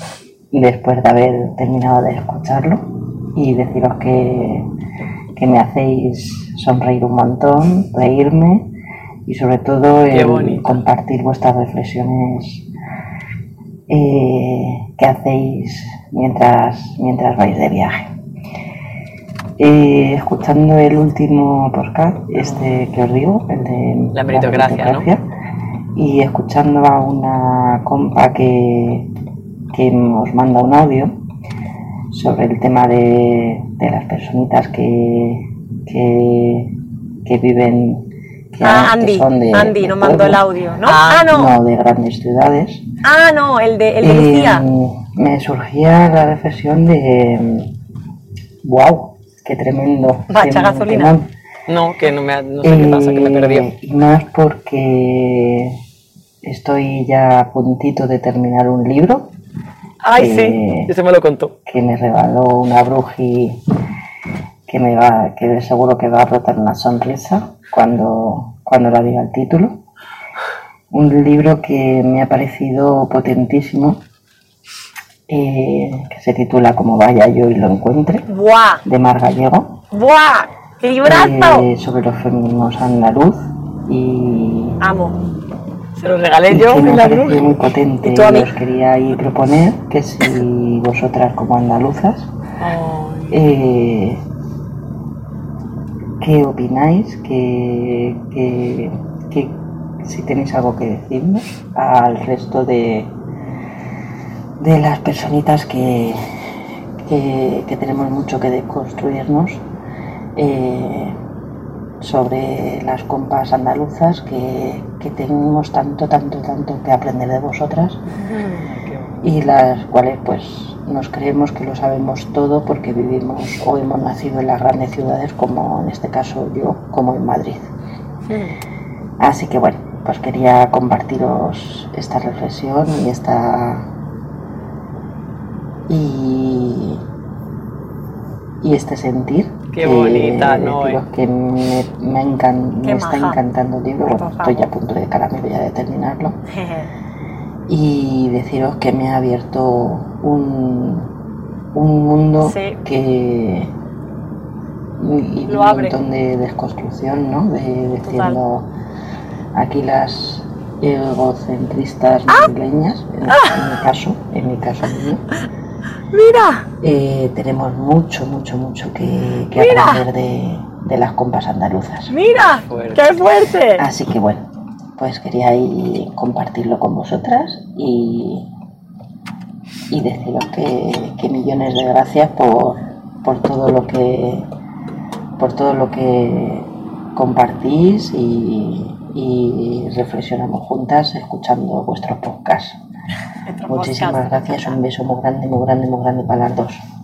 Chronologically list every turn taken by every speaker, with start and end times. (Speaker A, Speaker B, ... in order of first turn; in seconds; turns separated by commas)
Speaker A: 0.5-4.7, Speaker A: 5.3-8.7, Speaker A: 9.3-12.7, Speaker B: 10.1-10.8, Speaker A: 13.9-18.1, Speaker A: 19.6-25.3, Speaker B: 22.4-22.8, Speaker B: 24.1-25.1, Speaker A: 25.9-29.1, Speaker A: 29.7-31.2, Speaker A: 32.1-40.4, Speaker C: 38.6-41.5, Speaker B: 40.9-41.3, Speaker A: 41.2-42.9, Speaker C: 43.0-44.6, Speaker A: 44.0-47.8, Speaker A: 48.6-51.3, Speaker C: 50.3-51.1, Speaker B: 51.7-53.7, Speaker A: 52.6-55.8, Speaker A: 56.4-59.3, Speaker B: 60.0-61.5, Speaker A: 60.1-60.9, Speaker A: 61.7-63.6, Speaker A: 64.7-69.8, Speaker A: 70.9-74.0, Speaker A: 75.3-78.3, Speaker C: 78.3-78.8, Speaker A: 78.8-79.8, Speaker C: 79.9-81.7, Speaker A: 81.0-84.8, Speaker C: 84.8-85.2, Speaker B: 86.0-87.6, Speaker A: 86.5-92.3, Speaker C: 88.0-88.5, Speaker B: 92.6-93.4, Speaker A: 93.3-94.2, Speaker A: 96.2-103.1, Speaker A: 104.6-106.2, Speaker A: 107.0-109.6, Speaker A: 110.3-111.2, Speaker A: 112.0-118.0, Speaker C: 118.2-118.7, Speaker B: 118.5-119.2, Speaker A: 119.2-127.7, Speaker C: 128.3-128.6, Speaker A: 129.2-133.9, Speaker A: 135.9-137.0, Speaker A: 138.6-146.4, Speaker B: 139.7-141.0, Speaker C: 142.8-143.4, Speaker C: 144.0-144.7, Speaker C: 146.5-146.9, Speaker A: 147.7-151.1, Speaker A: 151.7-153.7, Speaker C: 152.4-152.8, Speaker A: 155.0-158.7, Speaker C: 155.5-156.0, Speaker C: 158.0-158.4, Speaker A: 159.5-165.3, Speaker C: 163.3-163.6, Speaker C: 166.1-166.7, Speaker A: 166.8-172.1, Speaker C: 169.6-170.1, Speaker C: 172.1-173.9, Speaker B: 172.7-173.1, Speaker A: 173.8-178.5, Speaker A: 179.9-184.5, Speaker A: 185.4-192.8, Speaker C: 193.4-194.8, Speaker A: 193.7-196.8